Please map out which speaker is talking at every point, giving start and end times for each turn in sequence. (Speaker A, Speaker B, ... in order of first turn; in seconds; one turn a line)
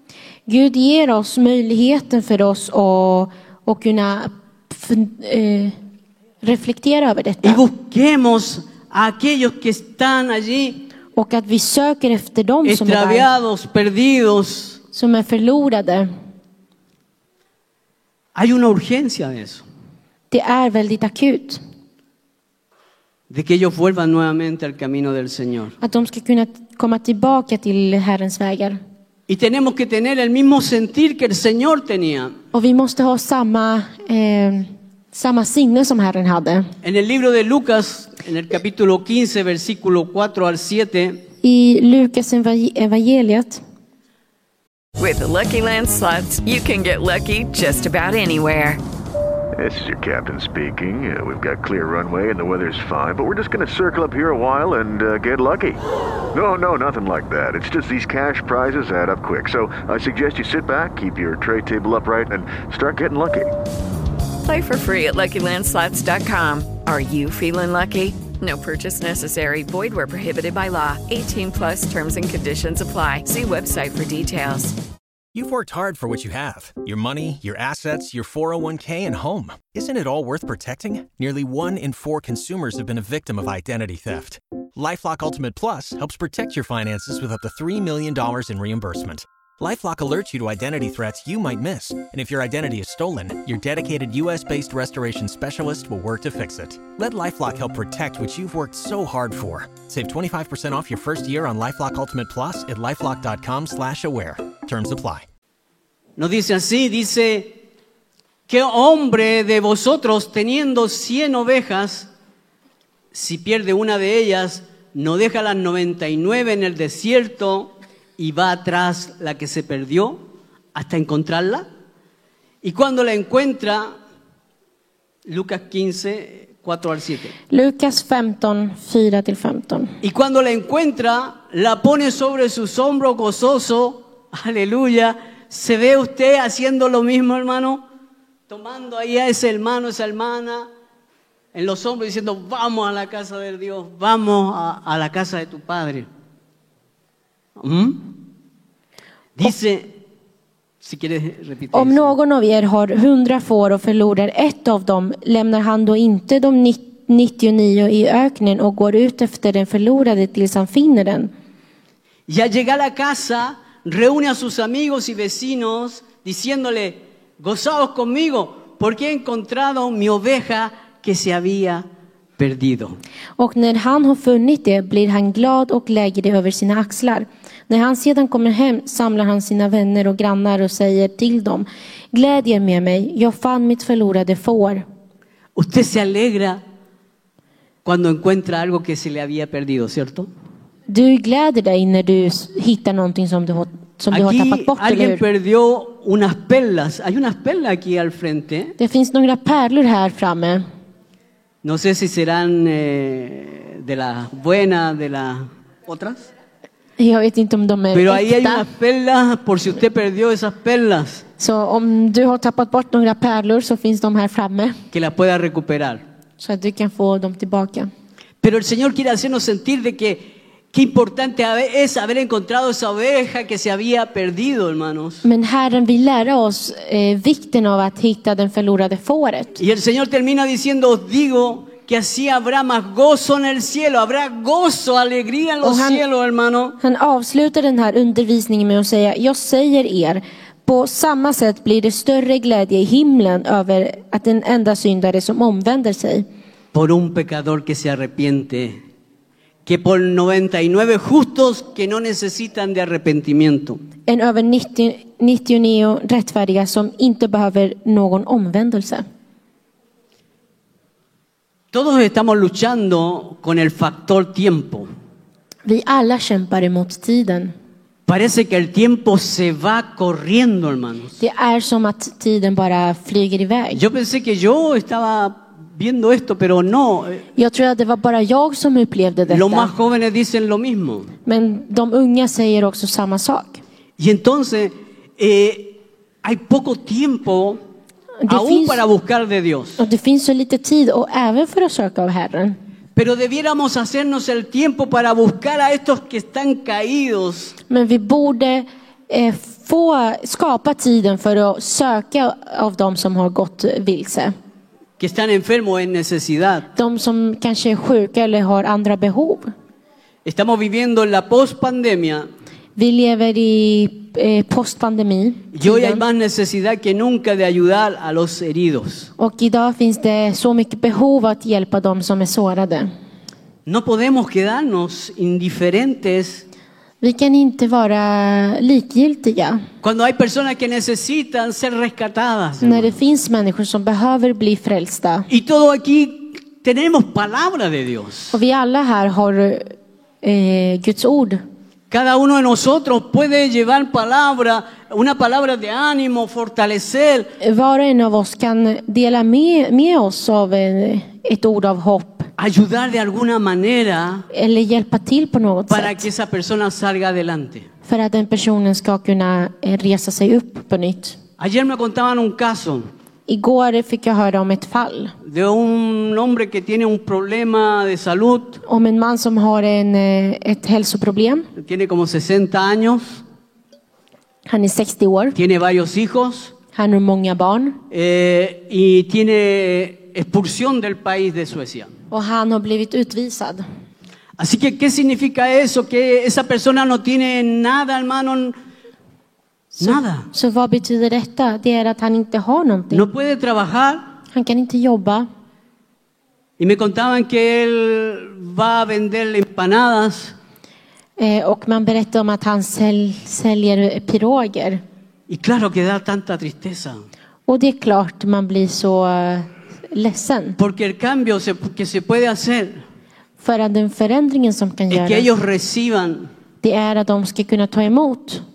Speaker A: 0.5-5.8
Speaker A: 6.4-7.6
Speaker B: 7.4-10.8
Speaker A: 11.2-13.3
Speaker B: 12.6-14.8
Speaker A: 14.9-16.1
Speaker B: 18.4-19.6
Speaker A: 20.3-21.6
Speaker B: 23.3-25.8
Speaker A: 25.8-28.8
Speaker B: 29.3-32.4
Speaker A: 32.5-36.7
Speaker B: 36.8-41.2
Speaker A: 41.4-43.6
Speaker C: 45.0-48.8
Speaker D: 49.6-55.8
Speaker D: 56.3-63.5
Speaker C: 64.4-74.8
Speaker E: 75.3-105.2
Speaker B: 106.2-107.6
Speaker B: 108.5-112.1
Speaker B: 113.1-121.7
Speaker B: 122.6-124.0
Speaker B: 125.3-127.3
Speaker A: 127.5-129.9
Speaker B: 130.0-137.8
Speaker B: 138.5-140.7
Speaker B: 141.5-146.1
Speaker B: 147.6-148.1
Speaker B: 149.4-149.9
Speaker B: 150.8-152.1
Speaker A: 151.7-161.3
Speaker B: 162.3-171.9
Speaker B: 172.4-173.0
Speaker A: 173.4-184.8
Speaker B: 185.6-186.6
Speaker B: 187.8-190.3
Speaker A: 190.9-195.2
Speaker B: 194.1-198.8
Speaker A: 198.8-200.7
Speaker B: 201.6-206.3
Speaker A: 207.0-208.7
Speaker B: 207.9-211.2
Speaker A: 211.4-214.8
Speaker B: 214.9-216.0
Speaker A: 216.4-217.9
Speaker B: 218.4-225.2
Speaker A: 225.2-229.6
Speaker B: 229.6-236.8
Speaker A: 235.6-236.0
Speaker A: 236.8-246.3
Speaker B: 246.7-248.8
Speaker B: 249.7-253.8
Speaker A: 254.1-259.0
Speaker B: 261.7-264.9
Speaker A: 265.6-267.5
Speaker B: 268.1-271.2
Speaker A: 271.2-273.8
Speaker B: 273.7-277.2
Speaker A: 277.4-279.7
Speaker B: 279.3-281.1
Speaker A: 281.3-283.6
Speaker B: 284.0-287.6
Speaker A: 288.2-288.8
Speaker B: 288.3-289.8
Speaker A: 289.8-292.6
Speaker B: 292.9-297.6
Speaker A: 297.7-304.4
Speaker B: 305.0-306.7
Speaker A: 306.8-309.5
Speaker B: 310.2-312.3
Speaker A: 312.8-316.0
Speaker B: 315.5-319.1
Speaker A: 319.2-322.9
Speaker B: 323.7-326.4
Speaker A: 327.0-329.6
Speaker B: 329.8-333.0
Speaker A: 332.6-335.3
Speaker B: 335.3-338.4
Speaker A: 338.3-339.7
Speaker A: 340.2-341.4
Speaker B: 341.9-347.3
Speaker A: 347.4-352.3
Speaker B: 352.4-354.3
Speaker A: 354.3-356.1
Speaker B: 355.7-357.7
Speaker A: 357.9-361.2
Speaker B: 361.4-362.9
Speaker A: 363.3-365.1
Speaker B: 365.2-368.6
Speaker A: 368.6-371.5
Speaker B: 371.6-373.2
Speaker A: 374.5-375.4
Speaker B: 375.4-376.5
Speaker A: 376.7-377.8
Speaker B: 377.9-381.9
Speaker A: 382.1-383.6
Speaker B: 384.4-388.6
Speaker A: 389.8-393.1
Speaker B: 389.8-390.3
Speaker B: 392.9-394.0
Speaker A: 394.3-395.3
Speaker B: 396.6-400.4
Speaker A: 401.2-404.8
Speaker B: 405.3-407.0
Speaker A: 407.5-410.6
Speaker B: 410.6-412.8
Speaker A: 413.4-415.3
Speaker B: 414.9-416.3
Speaker A: 416.6-418.4